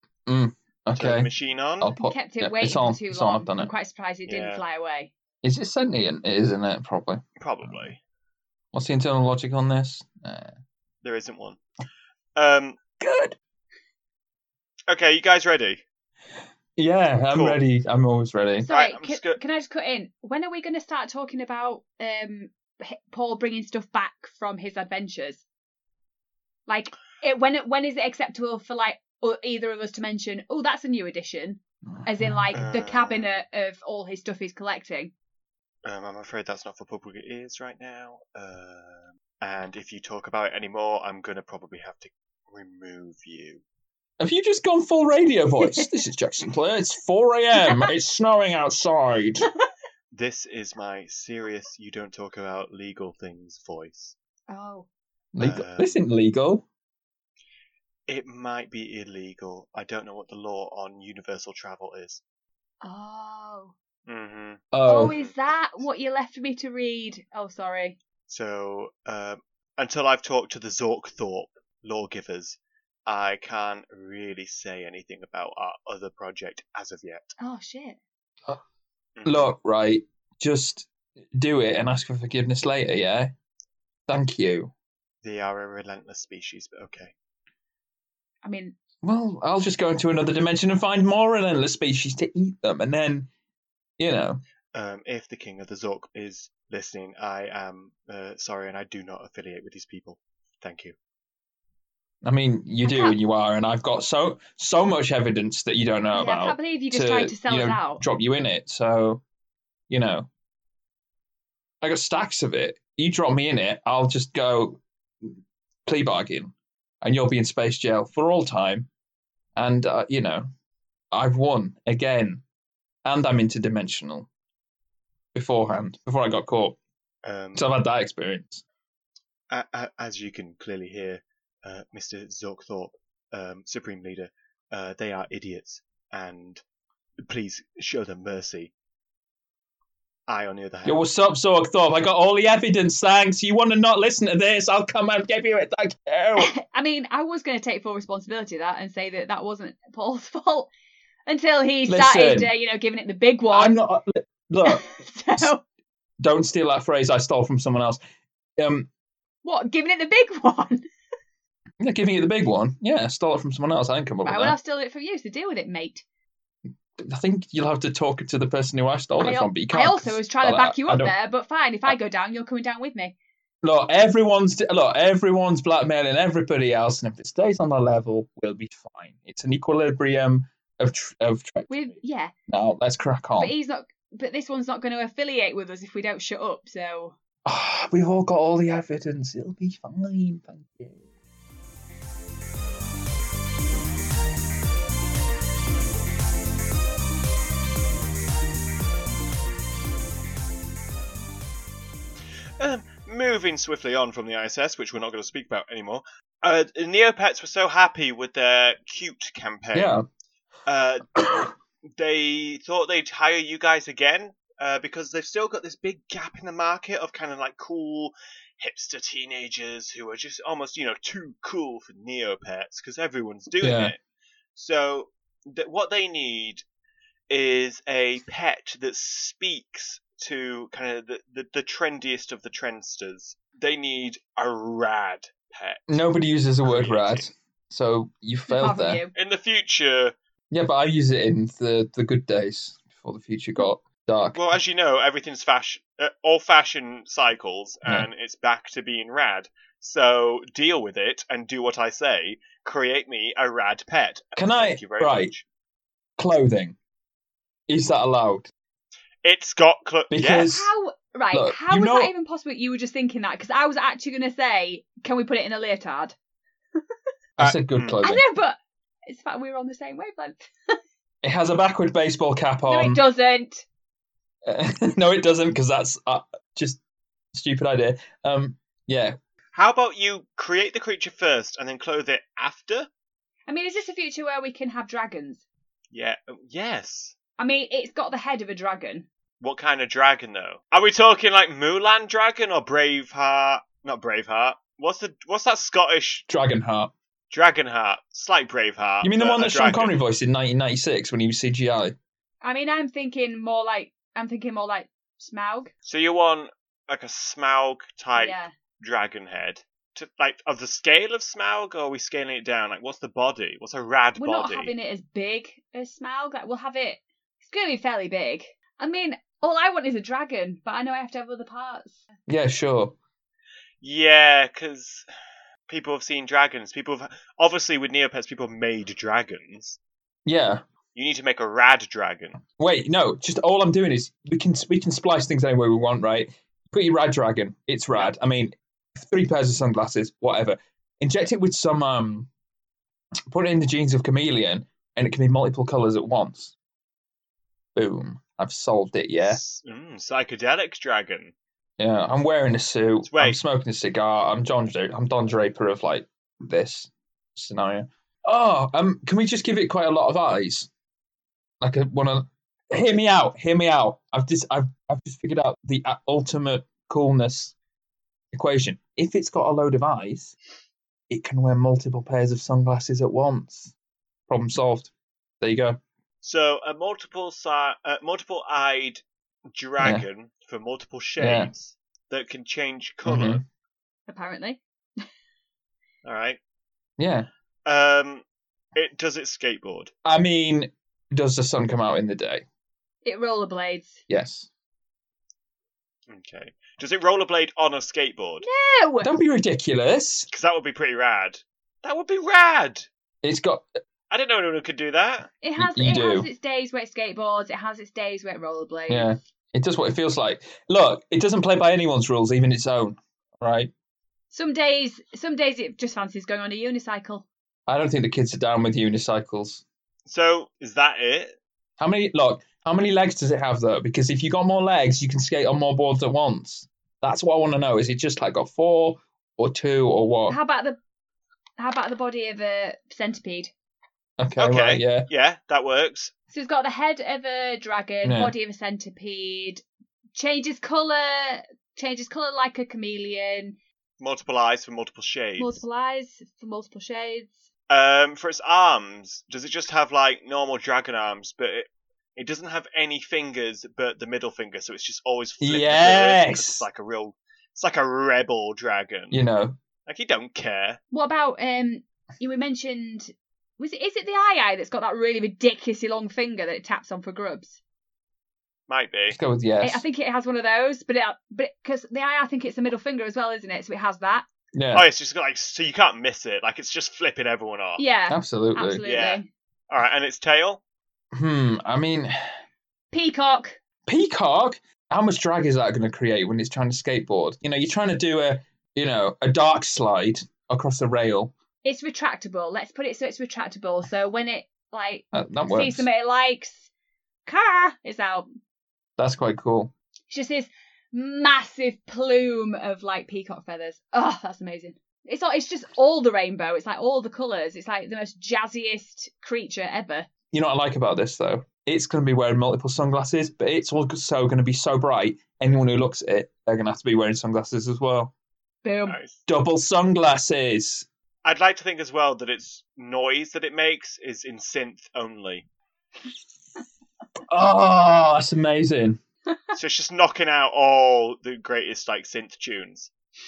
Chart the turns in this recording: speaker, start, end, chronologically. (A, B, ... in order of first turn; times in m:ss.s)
0:00.2-0:03.7 A
0:00.9-0:01.9 B
0:02.0-0:05.1 C
0:04.3-0:04.6 B
0:05.4-0:07.9 A
0:07.4-0:08.0 B
0:08.7-0:10.5 A
0:11.0-0:11.6 B
0:12.4-0:12.8 B
0:13.0-0:13.4 A
0:14.9-0:15.8 B
0:16.8-0:18.7 A
0:17.3-0:17.6 B
0:18.6-0:25.4 C
0:18.6-0:19.4 B
0:26.7-0:35.1 C
0:31.9-0:32.4 A
0:32.5-0:33.4 B
0:35.8-0:43.6 B
0:44.2-0:49.5 A
0:45.6-0:46.0 C
0:47.6-0:47.9 C
0:50.1-0:54.1 B
0:54.5-0:54.9 C
0:55.3-0:56.6 A
0:55.4-0:56.0 B
0:58.1-1:02.2 B
1:02.8-1:03.7 C
1:04.1-1:05.3 B
1:04.7-1:05.1 A
1:04.8-1:08.0 C
1:08.3-1:17.4 B
1:17.4-1:18.0 C
1:19.2-1:19.5 B
1:19.2-1:23.3 A
1:24.1-1:24.7 A
1:25.2-1:27.1 B
1:28.4-1:28.8 C
1:29.0-1:33.3 A
1:34.0-1:34.4 A
1:34.7-1:41.0 B
1:42.2-1:49.2 A
1:42.8-1:43.2 C
1:46.1-1:48.0 C
1:49.9-1:50.3 A
1:51.8-1:58.9 A
1:59.6-2:00.5 A
2:01.1-2:02.4 A
2:03.0-2:04.3 A
2:05.3-2:06.8 A
2:07.2-2:07.7 B
2:07.6-2:08.6 A
2:09.5-2:16.6 B
2:17.2-2:18.7 B
2:20.3-2:21.0 B
2:20.8-2:26.5 A
2:26.4-2:30.7 C
2:31.3-2:33.7 C
2:31.9-2:32.5 A
2:33.5-2:35.5 A
2:34.6-2:35.6 C
2:36.2-2:38.0 A
2:38.6-2:38.9 A
2:39.4-2:40.8 C
2:41.8-2:44.6 A
2:44.2-2:46.0 C
2:47.0-2:51.1 A
2:49.2-2:53.1 C
2:53.6-3:01.7 A
3:01.7-3:02.3 C
3:02.5-3:03.5 A
3:03.4-3:07.1 C
3:07.4-3:11.0 A
3:22.6-3:29.9 B
3:29.7-3:30.0 A
3:30.6-3:31.4 B
3:31.2-3:31.5 A
3:31.9-3:44.0 B
3:43.6-3:43.9 A
3:44.5-3:46.6 B
3:47.3-3:56.1 B
3:55.9-3:59.0 A
3:56.6-3:57.3 B
3:58.5-3:59.1 C
3:59.1-4:00.2 B
4:00.5-4:04.5 A
4:04.3-4:15.4 B
4:14.4-4:15.3 A
4:16.2-4:16.8 A
4:17.7-4:18.5 A
4:19.2-4:20.6 B
4:20.1-4:20.7 A
4:20.5-4:26.1 C
4:21.3-4:22.1 A
4:27.4-4:28.2 A
4:27.4-4:28.0 B
4:28.0-4:30.8 C
4:31.2-4:33.0 A
4:32.7-4:33.6 C
4:34.4-4:36.8 A
4:37.3-4:39.2 A
4:39.5-4:42.9 B
4:43.5-4:45.4 C
4:45.9-4:47.1 B
4:47.4-4:49.1 C
4:49.4-4:56.2 B
4:56.3-4:56.9 A
4:57.3-5:00.0 B
4:59.0-5:01.9 A
5:02.4-5:05.7 C
5:05.8-5:14.7 B
5:08.1-5:08.5 C
5:14.2-5:22.0 C
5:22.3-5:23.0 A
5:23.8-5:25.1 B
5:25.7-5:29.8 B
5:30.2-5:30.6 A
5:30.9-5:32.4 B
5:32.6-5:42.3 A
5:43.3-5:46.5 A
5:47.7-5:49.4 A
5:49.2-5:51.3 B
5:51.8-6:00.7 A
5:53.0-5:53.4 B
6:01.6-6:07.5 A
6:08.3-6:10.3 A
6:11.1-6:13.7 A
6:14.3-6:15.8 A
6:16.2-6:23.4 B
6:19.8-6:20.0 A
6:21.2-6:21.5 A
6:23.0-6:23.4 A
6:24.1-6:24.6 C
6:26.0-6:26.4 B
6:27.0-6:27.3 A
6:27.6-6:28.2 B
6:28.7-6:29.9 B
6:30.0-6:32.4 A
6:33.0-6:34.0 C
6:34.1-6:34.5 A
6:36.1-6:38.4 B
6:38.4-6:39.1 C
6:39.0-6:40.3 A
6:40.3-6:42.9 B
6:43.2-6:43.7 A
6:44.1-6:45.3 B
6:45.4-6:49.1 C
6:45.6-6:46.3 A
6:48.9-6:53.7 A
6:54.3-6:57.2 C
6:57.7-6:59.6 A
7:00.1-7:01.4 B
7:01.8-7:10.4 A
7:10.3-7:10.8 C
7:11.6-7:13.5 C
7:14.2-7:15.1 A
7:14.4-7:16.1 B
7:16.3-7:19.6 C
7:18.0-7:18.3 A
7:20.1-7:23.5 C
7:24.0-7:25.6 B
7:25.4-7:27.4 C
7:27.7-7:39.2 B
7:35.4-7:36.6 A
7:39.1-7:39.6 A
7:39.9-7:40.8 B
7:40.9-7:47.6 C
7:48.7-7:49.2 B
7:49.1-7:49.8 A
7:49.6-7:54.2 C
7:54.5-7:54.8 A
7:54.7-7:57.8 B
7:57.8-7:59.3 C
7:58.1-7:58.8 A
7:58.8-8:00.6 B
8:01.1-8:02.2 A
8:02.9-8:03.6 C
8:03.8-8:11.3 A
8:11.6-8:16.7 C
8:15.1-8:15.9 A
8:17.2-8:18.3 C
8:19.0-8:19.7 A
8:20.1-8:30.1 C
8:30.3-8:38.1 A
8:38.6-8:39.0 C
8:38.8-8:39.2 B
8:39.3-8:40.8 A
8:41.2-8:45.4 B
8:47.3-8:49.0 A
8:49.5-8:52.9 B